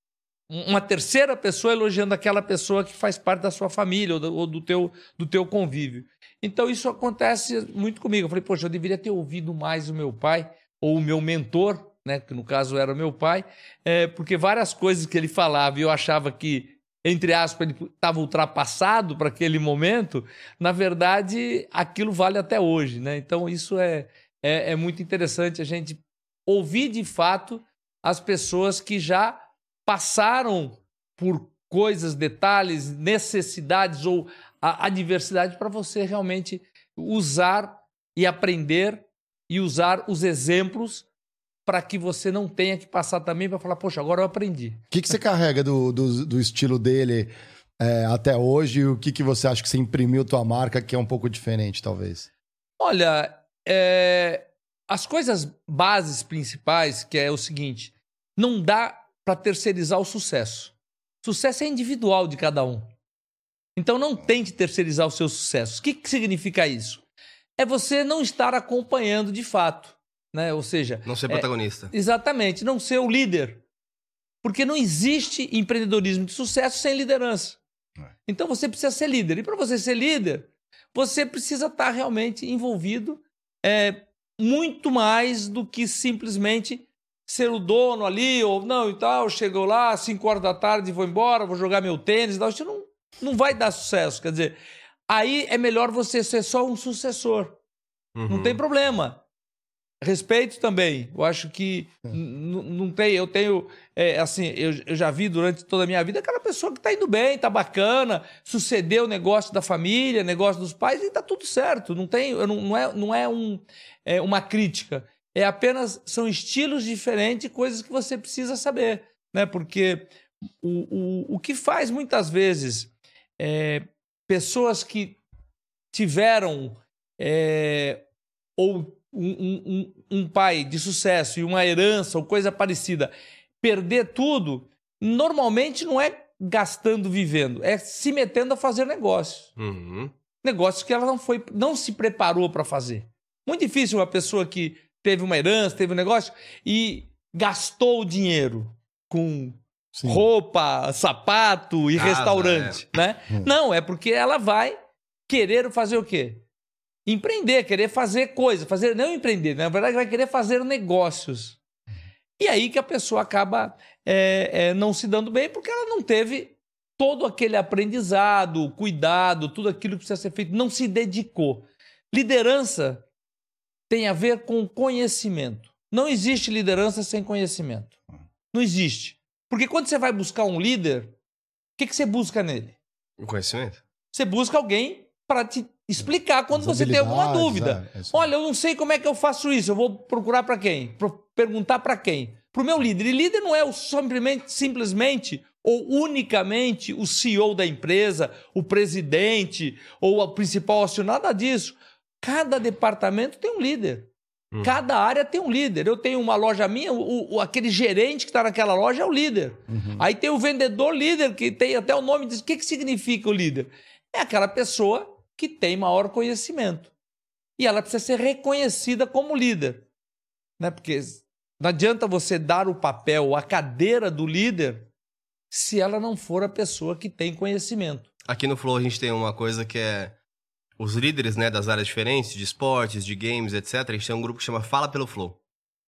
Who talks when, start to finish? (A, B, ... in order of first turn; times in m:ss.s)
0:00.5-0:41.0 A
0:41.6-0:44.8 A
0:44.9-0:52.3 B
0:52.8-1:02.9 A
1:03.8-1:07.0 A
1:07.6-1:13.6 A
1:11.0-1:11.9 C
1:14.4-1:17.6 A
1:18.2-1:34.6 A
1:35.1-1:37.6 A
1:38.1-1:38.6 C
1:38.3-1:39.2 A
1:40.0-2:00.1 A
2:00.6-2:05.2 A
2:05.9-2:08.0 A
2:08.6-2:19.5 A
2:19.6-2:20.1 C
2:20.4-2:34.8 A
2:29.9-2:30.2 B
2:32.0-2:32.8 C
2:35.3-2:36.4 A
2:37.0-2:41.6 A
2:42.4-2:53.0 A
2:53.9-2:57.9 A
2:58.5-3:01.1 A
3:01.8-3:02.8 A
3:03.2-3:03.8 C
3:04.1-3:24.1 A
3:06.5-3:08.3 B
3:24.6-3:36.9 A
3:29.7-3:30.0 B
3:37.6-3:39.8 A
3:40.6-3:44.9 A
3:45.5-3:48.1 A
3:48.3-3:50.1 C
3:50.8-3:55.4 C